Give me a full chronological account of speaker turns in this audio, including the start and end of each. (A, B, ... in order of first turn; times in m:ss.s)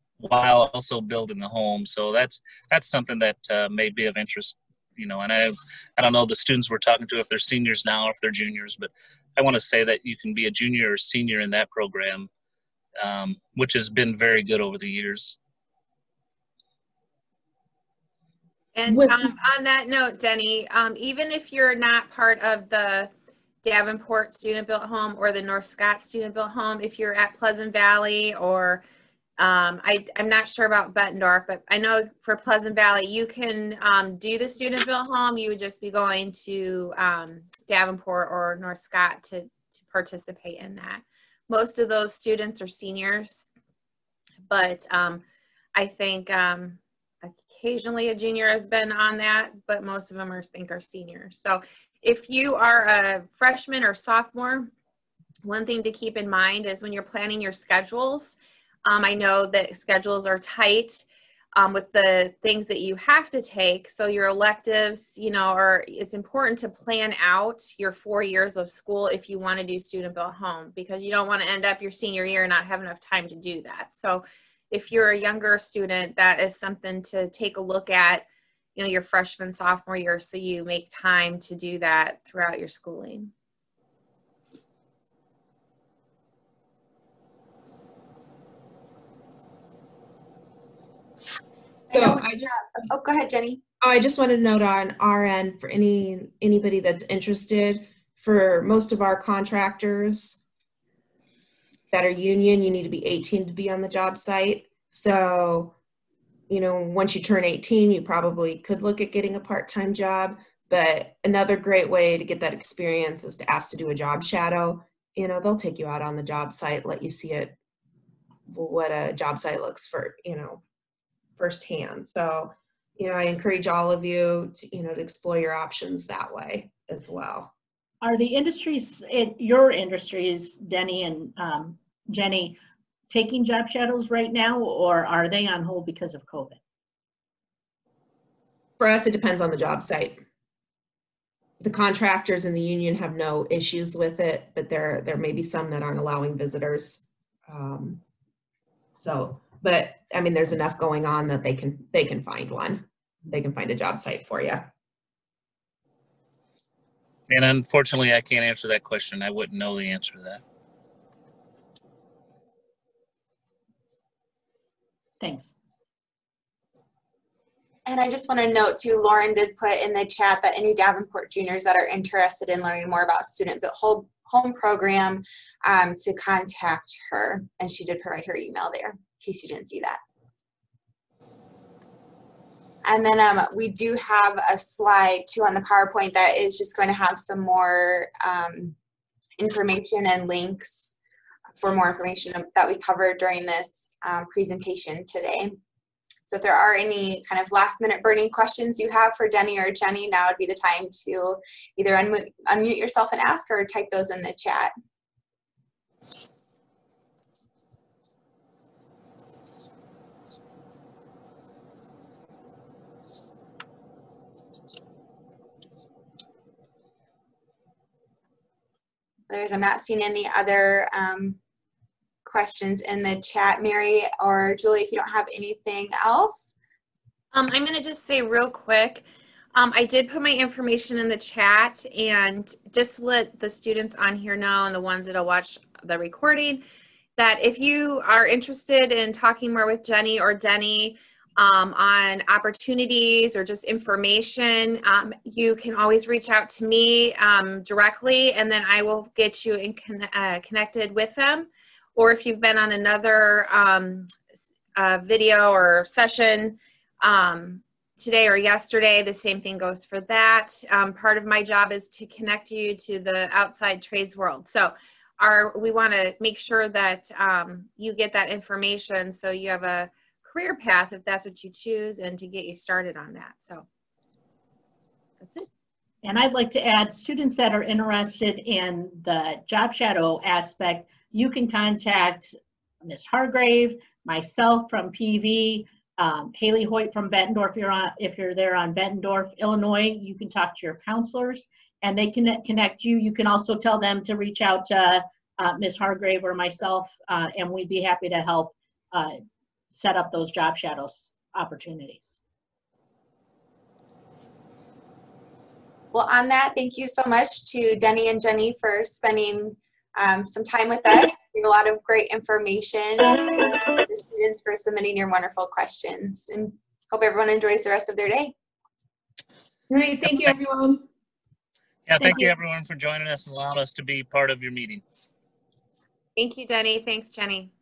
0:00.2-0:12.3 A
0:13.0-0:15.4 A
0:18.7-0:23.1 B
0:18.9-0:19.3 C
0:23.6-0:28.8 B
0:29.4-0:43.5 B
0:44.5-0:45.2 B
0:45.7-0:54.7 B
0:55.4-1:01.0 B
1:01.6-1:23.3 B
1:31.9-1:33.6 D
1:31.9-1:32.5 C
1:33.8-1:40.4 C
1:41.9-1:45.8 C
1:46.5-1:57.6 C
1:58.5-2:00.6 C
2:01.4-2:07.5 C
2:08.0-2:12.6 E
2:13.1-2:16.6 E
2:18.8-2:20.2 C
2:21.6-2:28.0 C
2:29.0-2:34.7 C
2:37.3-2:40.4 A
2:45.2-2:45.5 E
2:47.8-3:00.0 D
3:02.8-3:08.7 D
3:09.4-3:10.9 D
3:11.6-3:15.6 D
3:16.2-3:24.7 D
3:39.3-3:41.4 D
3:42.2-3:46.5 D
3:47.3-3:56.6 B
3:57.2-4:14.2 B
4:14.8-4:33.6 B
4:35.2-4:35.5 B
4:36.0-4:59.2 E
4:59.7-5:02.2 E
5:05.9-5:18.3 D
5:19.7-5:20.8 C
5:21.9-5:24.8 A
5:26.2-5:27.5 B